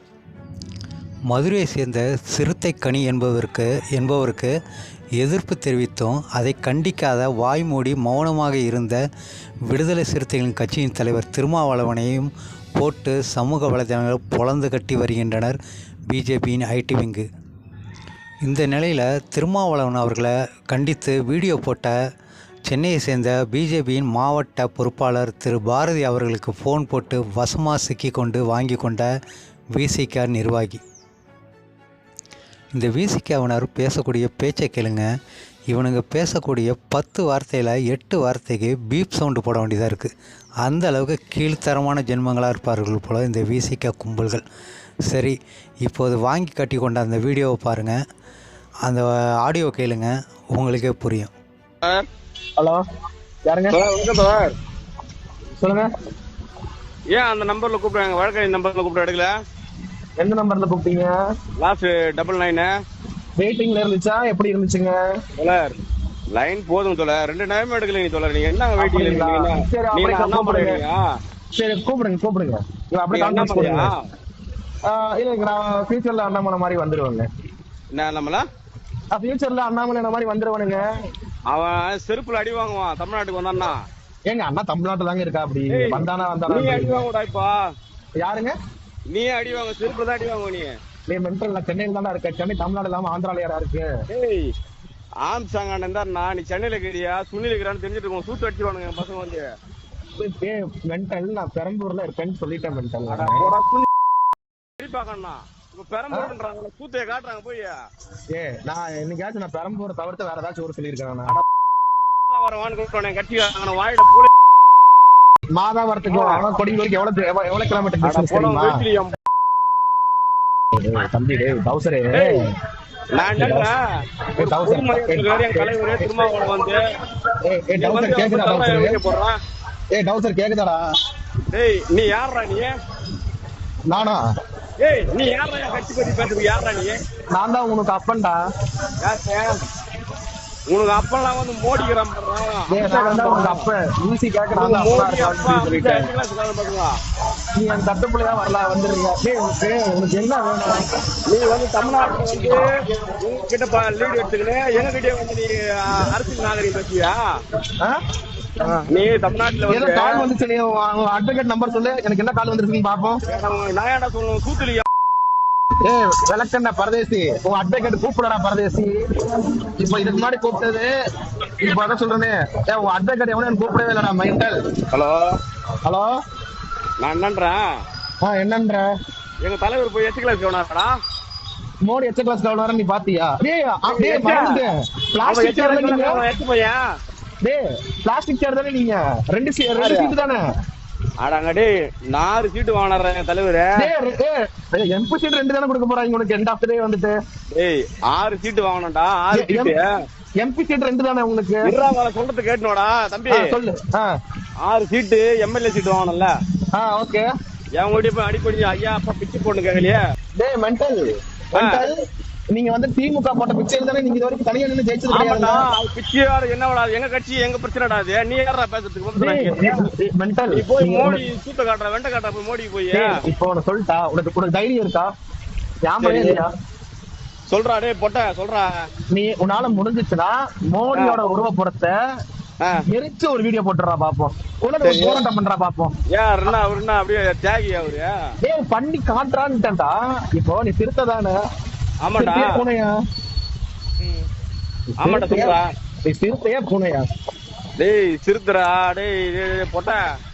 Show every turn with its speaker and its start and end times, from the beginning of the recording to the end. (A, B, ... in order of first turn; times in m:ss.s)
0:01.3-0:04.5 A
0:05.2-0:09.0 A
0:09.7-0:15.6 A
0:16.1-0:17.2 A
0:18.4-0:21.9 A
0:22.7-0:29.1 A
0:29.8-0:30.8 A
0:32.8-0:35.0 A
0:35.7-0:40.1 A
0:40.6-0:44.4 A
0:45.1-0:48.0 A
0:48.8-0:51.3 A
0:53.4-0:53.8 B
0:53.7-0:54.5 C
0:55.6-0:55.9 B
0:57.1-0:59.3 C
1:00.2-1:01.1 B
1:01.6-1:02.7 C
1:03.4-1:05.0 B
1:05.4-1:05.7 C
1:06.3-1:11.0 C
1:08.8-1:10.8 B
1:11.6-1:13.9 B
1:13.1-1:14.0 C
1:14.8-1:17.2 B
1:17.9-1:18.4 C
1:19.1-1:20.8 B
1:21.5-1:23.8 C
1:24.3-1:27.0 B
1:25.7-1:27.5 C
1:28.2-1:28.5 B
1:29.1-1:30.7 C
1:31.1-1:33.9 B
1:34.1-1:34.5 C
1:35.2-1:39.4 C
1:40.2-1:43.5 B
1:43.1-1:43.9 C
1:44.8-1:47.7 C
1:48.3-1:51.4 B
1:52.3-1:54.3 C
1:55.5-1:58.8 B
1:56.1-1:56.4 C
1:58.0-1:59.1 C
2:00.7-2:02.4 B
2:02.1-2:02.4 C
2:03.1-2:03.8 C
2:03.3-2:03.7 B
2:04.4-2:06.3 B
2:04.4-2:06.8 C
2:07.4-2:09.0 B
2:07.8-2:09.3 C
2:09.9-2:10.8 B
2:11.5-2:12.7 C
2:13.9-2:14.2 B
2:14.8-2:17.0 C
2:17.3-2:18.4 B
2:19.0-2:19.6 C
2:20.7-2:23.6 C
2:22.7-2:26.1 B
2:24.5-2:26.9 C
2:27.5-2:30.9 B
2:31.3-2:32.7 C
2:33.2-2:37.2 C
2:38.6-2:38.9 B
2:38.9-2:40.2 C
2:39.7-2:43.2 B
2:43.3-2:44.8 C
2:45.8-2:48.9 B
2:49.7-2:50.9 B
2:51.6-2:54.5 B
2:54.9-2:55.3 C
2:55.8-2:56.1 B
2:57.0-2:57.6 C
2:58.2-2:58.8 B
2:59.4-3:00.9 C
3:01.8-3:06.2 B
3:03.9-3:04.6 C
3:05.2-3:06.8 C
3:07.4-3:10.4 B
3:09.8-3:10.1 C
3:11.2-3:13.9 C
3:13.8-3:17.1 B
3:17.5-3:19.8 C
3:19.3-3:19.7 B
3:20.4-3:21.6 B
3:21.6-3:23.5 C
3:23.3-3:24.1 B
3:24.6-3:26.3 C
3:26.7-3:27.3 B
3:27.8-3:30.0 C
3:30.4-3:31.9 B
3:31.6-3:31.8 C
3:32.5-3:35.6 B
3:35.1-3:39.8 C
3:39.2-3:41.2 B
3:40.5-3:43.1 C
3:42.9-3:45.1 B
3:45.8-3:46.5 B
3:46.0-3:46.4 C
3:47.5-3:48.7 C
3:49.1-3:51.9 B
3:50.9-3:51.2 C
3:52.9-3:55.9 B
3:54.8-3:55.2 C
3:56.1-3:58.1 C
3:58.4-4:01.3 B
4:02.0-4:02.6 C
4:02.1-4:02.9 B
4:05.0-4:05.6 B
4:05.0-4:05.6 C
4:06.1-4:07.1 B
4:07.8-4:10.0 C